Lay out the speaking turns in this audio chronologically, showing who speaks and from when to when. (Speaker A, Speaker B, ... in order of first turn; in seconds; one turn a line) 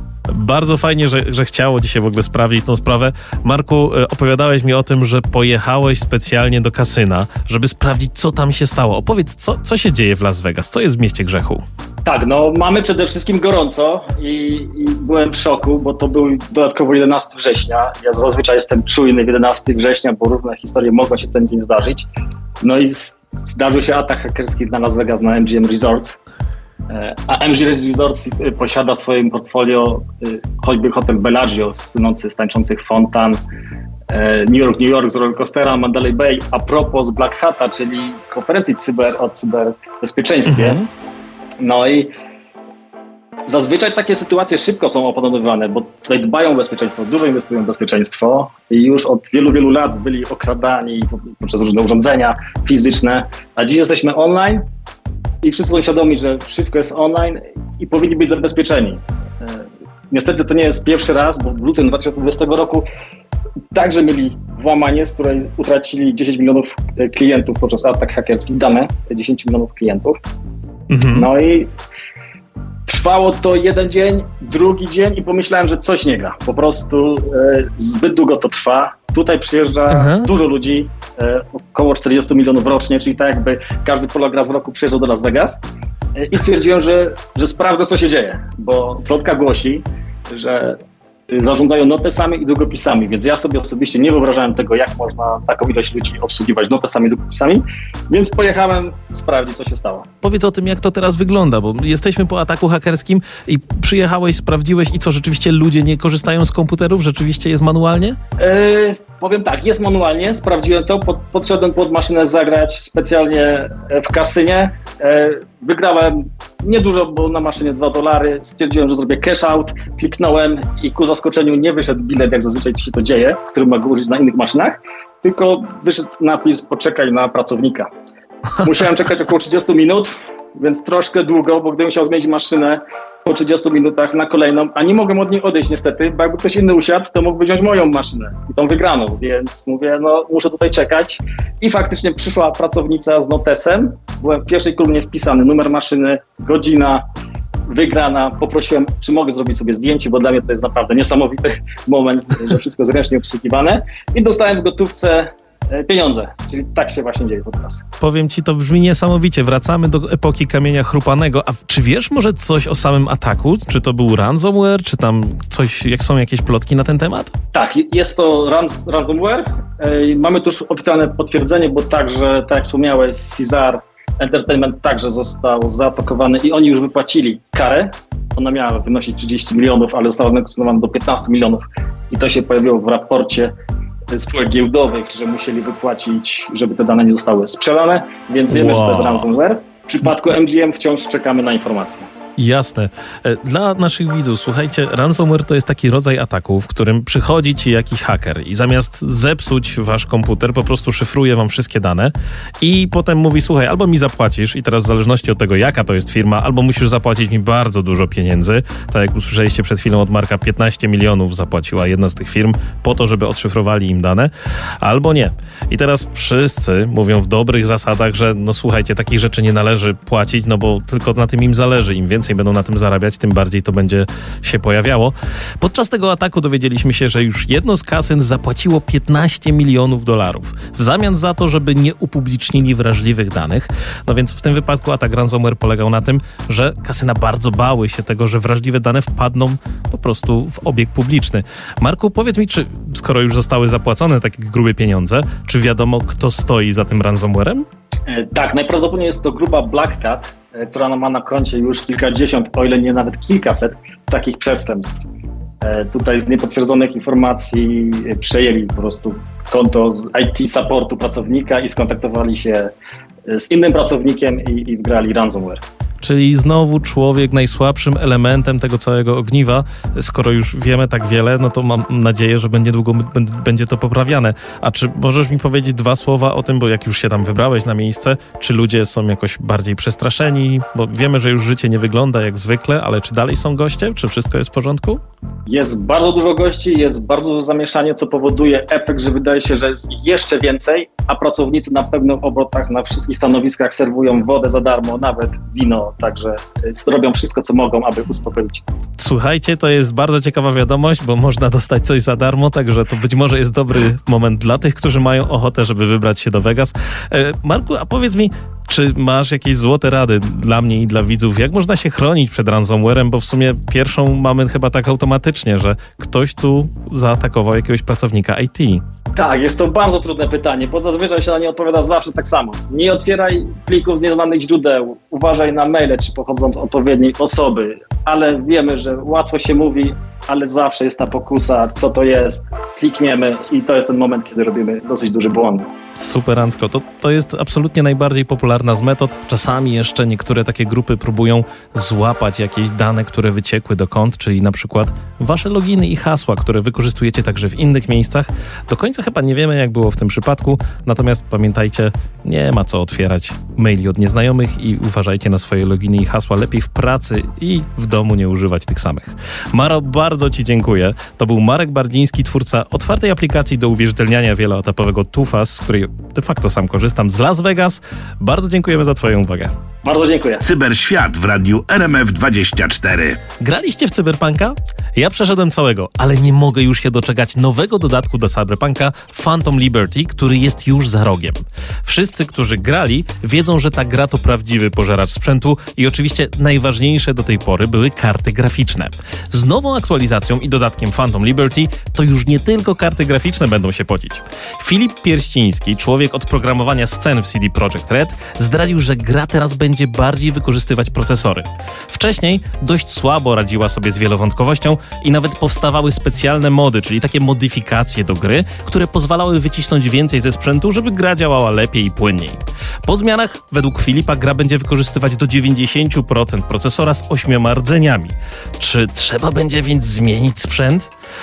Speaker A: 0.3-11.6
Speaker B: 12.1-22.1
Speaker B: 22.6-26.2
Speaker B: 26.9-33.4
Speaker B: 34.1-40.8
Speaker A: 40.5-40.9
Speaker B: 41.6-42.1
Speaker B: 43.5-54.6
Speaker B: 55.4-62.9
Speaker B: 63.7-70.2
Speaker A: 70.9-71.3
Speaker B: 71.0-71.7
Speaker B: 72.9-85.6
Speaker A: 79.9-80.3
Speaker B: 86.2-90.8
Speaker B: 91.3-100.1
Speaker A: 100.2-108.2
Speaker B: 108.4-127.9
Speaker B: 128.6-147.0
Speaker B: 147.7-157.8
Speaker A: 158.0-167.3
Speaker B: 167.5-183.5
Speaker B: 184.1-192.1
Speaker A: 188.5-189.3
Speaker A: 192.4-247.7
Speaker B: 248.1-255.0
Speaker B: 255.6-262.7
Speaker B: 263.3-265.6
Speaker A: 266.0-285.0
Speaker B: 285.5-298.6
Speaker A: 299.0-318.8
Speaker B: 319.1-335.7
Speaker A: 336.0-369.5
Speaker B: 369.8-370.4
Speaker C: 370.4-373.2
Speaker A: 373.4-420.9